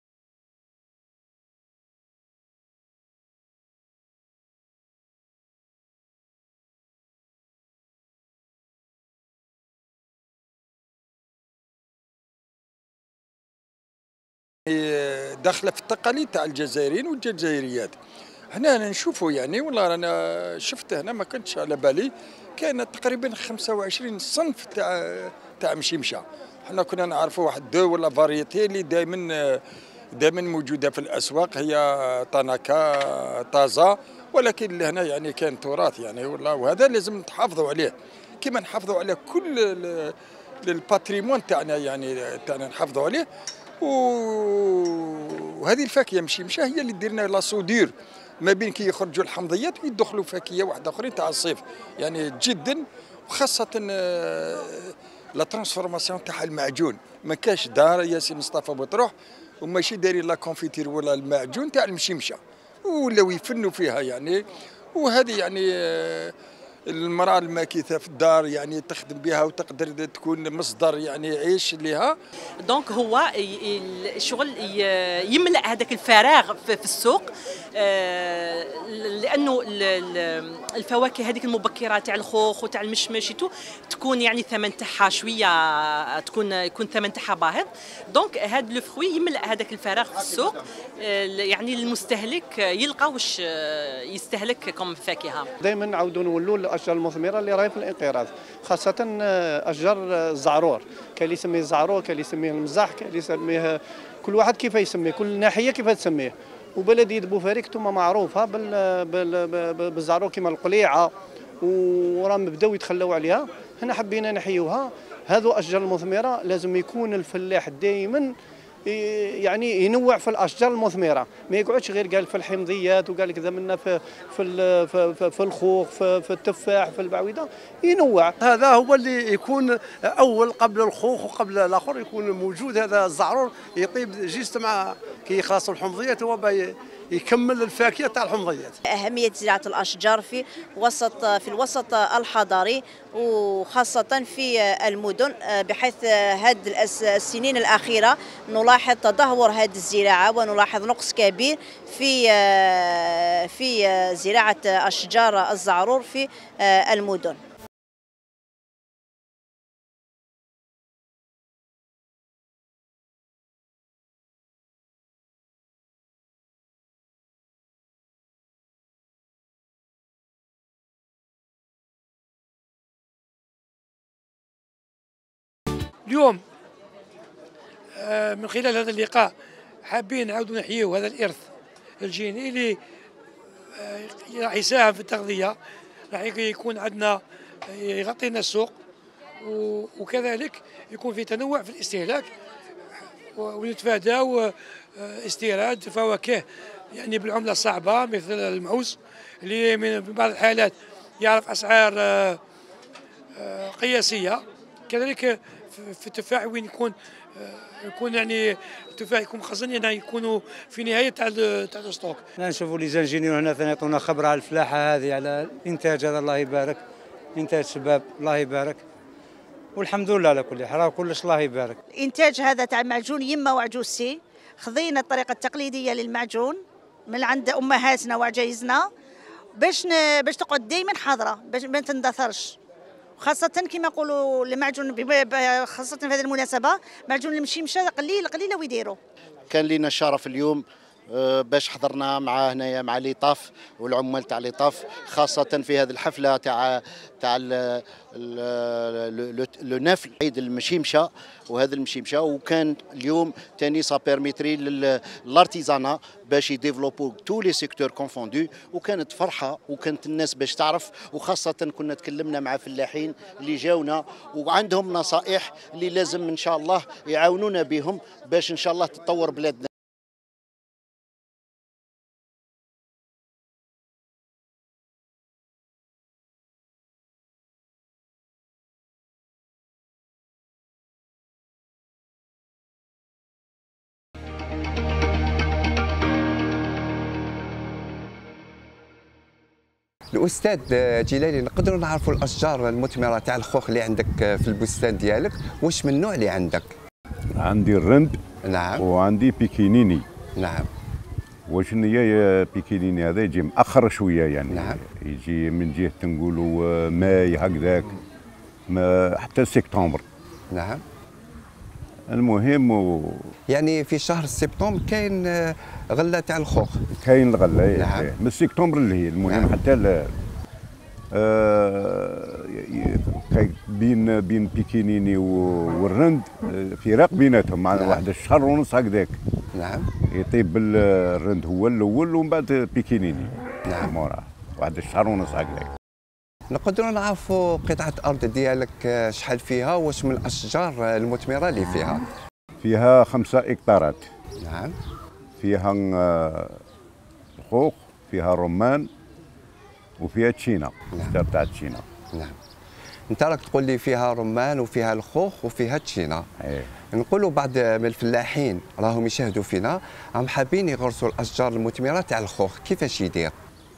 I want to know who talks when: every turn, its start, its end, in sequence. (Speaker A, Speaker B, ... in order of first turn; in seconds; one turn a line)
Speaker A: 14.7-18.0
Speaker A: 18.5-29.6
Speaker A: 30.1-43.3
Speaker A: 43.8-64.4
Speaker A: 65.0-66.3
Speaker A: 66.9-72.2
Speaker B: 72.6-95.5
Speaker C: 95.6-118.3
Speaker C: 118.9-128.3
Speaker D: 128.4-138.8
Speaker E: 138.9-157.4
Speaker F: 176.1-176.4
Speaker F: 178.0-179.3
Speaker F: 179.9-181.4
Speaker F: 182.0-182.8
Speaker F: 183.8-185.6
Speaker F: 186.1-188.7
Speaker F: 189.4-192.3
Speaker F: 193.3-202.4
Speaker F: 203.4-212.2
Speaker G: 212.4-216.8
Speaker G: 217.3-218.8
Speaker G: 219.8-221.8
Speaker H: 222.0-228.9
Speaker H: 229.6-232.6
Speaker H: 233.2-239.0
Speaker I: 239.5-269.7
Speaker J: 290.1-296.8
Speaker K: 297.4-298.2
Speaker J: 298.4-298.9
Speaker K: 298.8-300.1
Speaker J: 300.4-300.7
Speaker K: 301.5-307.9
Speaker J: 304.5-304.8
Speaker K: 308.7-310.0
Speaker J: 310.5-310.8
Speaker K: 312.1-313.3
Speaker J: 313.5-316.9
Speaker K: 316.9-320.2
Speaker J: 317.7-318.1
Speaker J: 319.3-319.5
Speaker K: 321.1-329.2
Speaker J: 327.7-328.0
Speaker J: 329.5-329.9
Speaker K: 330.0-335.7
Speaker J: 336.5-342.0
Speaker K: 342.6-344.1
Speaker J: 344.4-344.8
Speaker K: 345.4-346.6
Speaker K: 347.4-348.9
Speaker K: 350.0-351.9
Speaker J: 353.1-356.3
Speaker K: 356.4-356.7
Speaker J: 356.9-363.4